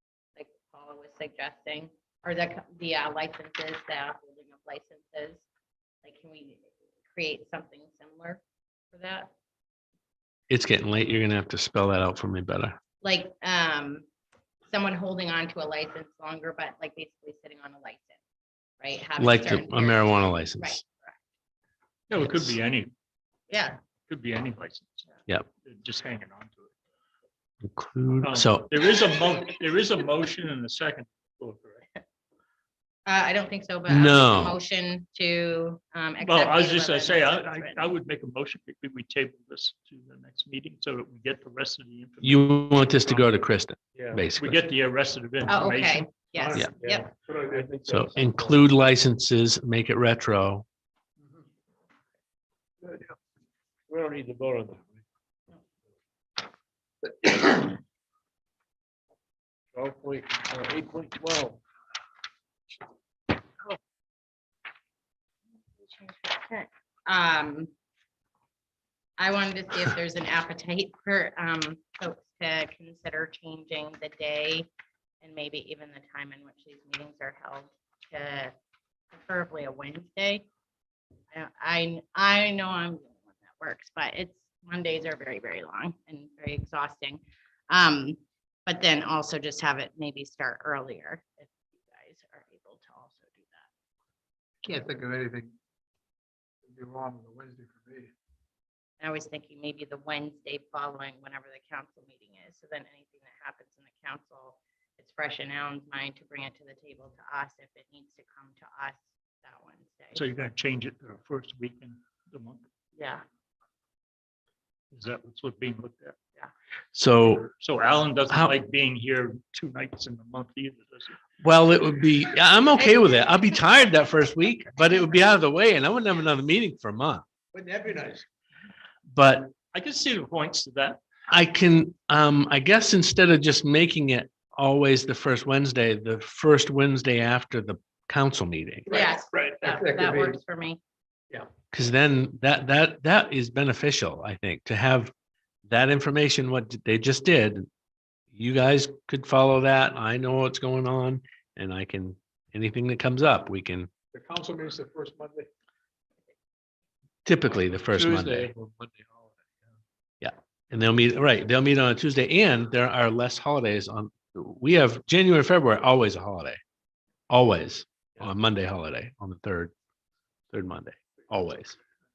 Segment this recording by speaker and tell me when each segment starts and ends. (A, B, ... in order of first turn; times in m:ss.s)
0:00.4-0:05.5 A
0:06.0-0:08.4 A
0:08.9-0:09.3 A
0:10.5-0:12.8 B
0:13.0-0:14.0 A
0:14.7-0:18.2 A
0:18.8-0:21.2 A
0:19.2-0:20.8 B
0:22.1-0:22.9 C
0:22.2-0:22.5 B
0:23.5-0:23.8 A
0:24.0-0:26.8 C
0:27.6-0:28.7 B
0:28.2-0:31.9 C
0:33.1-0:37.9 A
0:33.9-0:34.6 B
0:36.2-0:43.3 C
0:42.2-0:44.6 B
0:44.0-0:44.2 D
0:44.4-0:46.1 C
0:45.5-0:47.1 A
0:46.4-0:48.6 D
0:47.3-0:48.0 E
0:47.9-0:50.6 B
0:52.8-0:53.2 D
0:53.9-0:55.0 D
0:57.2-0:57.6 D
0:59.7-1:01.6 D
1:05.8-1:07.7 A
1:09.2-1:14.7 A
1:15.2-1:18.5 A
1:19.1-1:20.5 A
1:21.3-1:33.7 A
1:34.6-1:35.6 E
1:36.6-1:38.1 E
1:39.0-1:50.2 A
1:50.2-1:52.7 C
1:53.0-1:53.2 A
1:54.9-1:56.2 C
1:56.9-1:57.5 B
1:57.5-2:01.2 C
1:58.3-1:58.6 B
2:01.4-2:07.2 B
2:02.8-2:03.2 A
2:07.6-2:08.2 E
2:09.1-2:09.6 B
2:09.7-2:11.0 C
2:11.3-2:19.0 B
2:18.9-2:20.8 A
2:19.4-2:20.4 E
2:21.7-2:25.1 B
2:25.6-2:27.7 B
2:28.3-2:33.9 B
2:34.1-2:35.5 E
2:37.3-2:38.5 B
2:37.9-2:39.7 D
2:40.2-2:46.6 B
2:47.3-2:49.7 B
2:50.5-2:51.8 B